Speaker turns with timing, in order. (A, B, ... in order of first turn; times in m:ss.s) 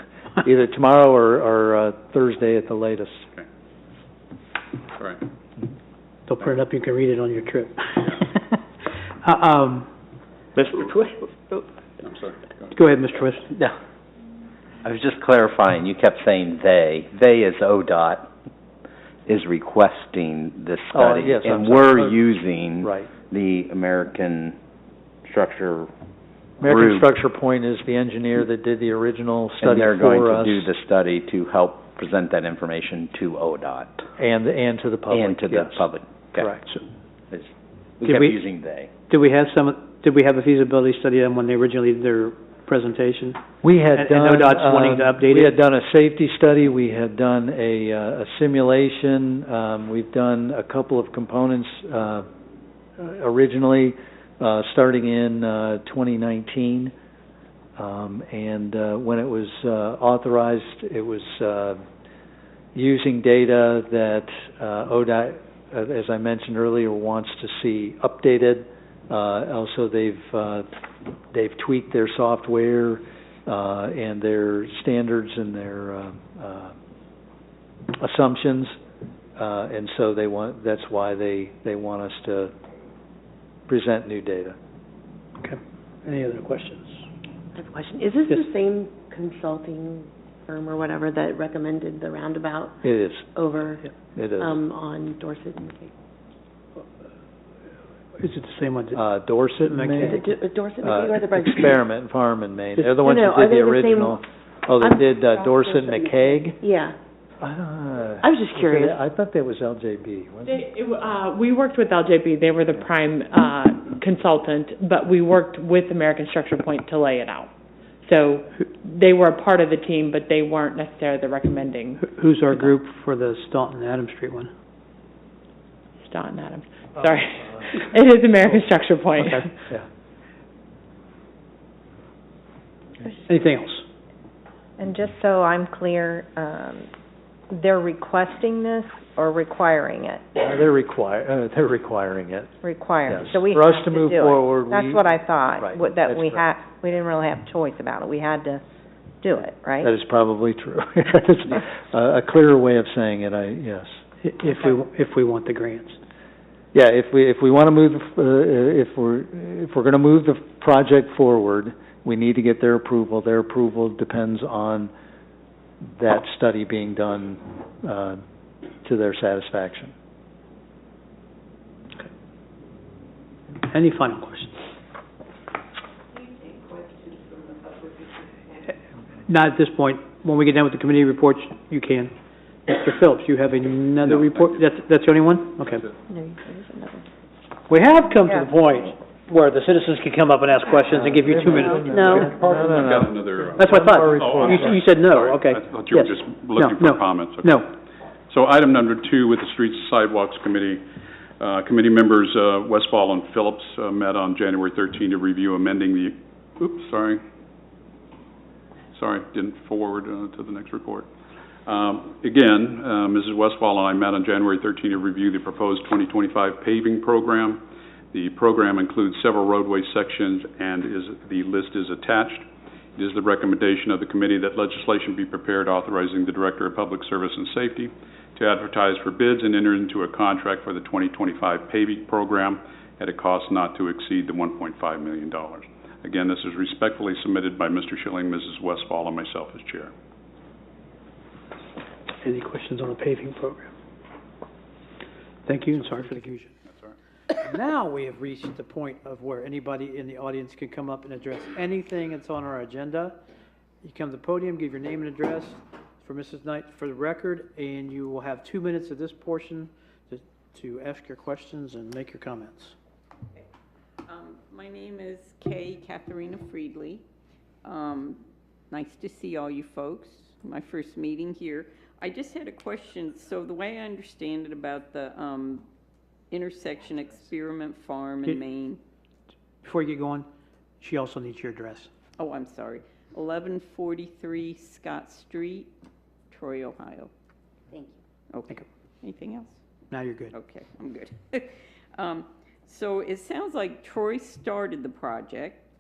0:00.4-0:03.2 A
0:05.0-0:05.2 B
0:06.3-0:08.6 C
0:09.2-0:09.9 C
0:12.0-0:12.8 B
0:12.7-0:13.5 C
0:14.8-0:18.3 D
0:19.3-0:24.6 D
0:20.9-0:22.2 A
0:22.8-0:23.1 A
0:25.3-0:25.9 D
0:26.6-0:30.7 A
0:26.6-0:27.1 D
0:29.6-0:34.0 D
0:34.2-0:35.8 A
0:35.1-0:36.5 D
0:36.4-0:36.6 A
0:38.0-0:38.9 D
0:38.1-0:38.4 C
0:39.1-0:43.4 C
0:43.6-0:52.3 A
0:43.9-0:45.5 C
0:53.0-0:56.9 A
0:57.8-1:01.8 A
1:02.8-1:10.7 A
1:11.3-1:16.8 A
1:17.9-1:18.8 A
1:19.4-1:22.5 A
1:23.7-1:24.6 A
1:25.4-1:27.0 C
1:27.6-1:32.8 E
1:32.8-1:33.4 A
1:33.4-1:33.8 E
1:34.2-1:34.6 A
1:34.4-1:35.9 E
1:38.2-1:39.0 C
1:38.9-1:40.2 A
1:39.6-1:40.2 C
1:40.1-1:41.8 E
1:40.8-1:46.6 A
1:43.0-1:44.2 E
1:44.8-1:47.0 E
1:47.4-1:50.7 A
1:48.2-1:48.9 E
1:50.5-1:57.5 F
1:58.0-2:02.7 F
2:02.0-2:04.5 C
2:06.1-2:09.5 F
2:09.2-2:09.5 C
2:13.3-2:13.8 C
2:14.8-2:16.9 G
2:17.5-2:20.2 G
2:20.4-2:22.5 A
2:22.6-2:28.6 G
2:23.1-2:26.5 A
2:29.2-2:29.9 G
2:29.8-2:34.0 A
2:34.2-2:36.0 C
2:36.7-2:44.9 A
2:46.0-2:48.2 A
2:48.8-2:49.9 A
2:53.7-2:54.5 C
2:59.3-3:02.1 C
3:02.7-3:05.9 C
3:04.1-3:04.6 B
3:07.7-3:12.6 C
3:10.9-3:14.8 A
3:11.6-3:12.2 E
3:12.2-3:17.6 B
3:13.6-3:17.7 C
3:18.3-3:20.8 B
3:21.4-3:27.2 B
3:29.0-3:31.1 B
3:31.7-3:42.4 B
3:43.0-3:59.9 B
4:02.2-4:03.7 C
4:05.5-4:06.6 C
4:05.7-4:07.0 B
4:07.4-4:13.2 C
4:13.8-4:22.8 C
4:24.1-4:27.0 H
4:27.6-4:35.7 H
4:36.3-4:38.8 H
4:39.6-4:40.3 C
4:40.8-4:41.9 C
4:42.2-4:45.7 H
4:46.3-4:47.1 H
4:48.3-4:49.6 H
4:49.9-4:50.4 C
4:50.3-4:55.6 H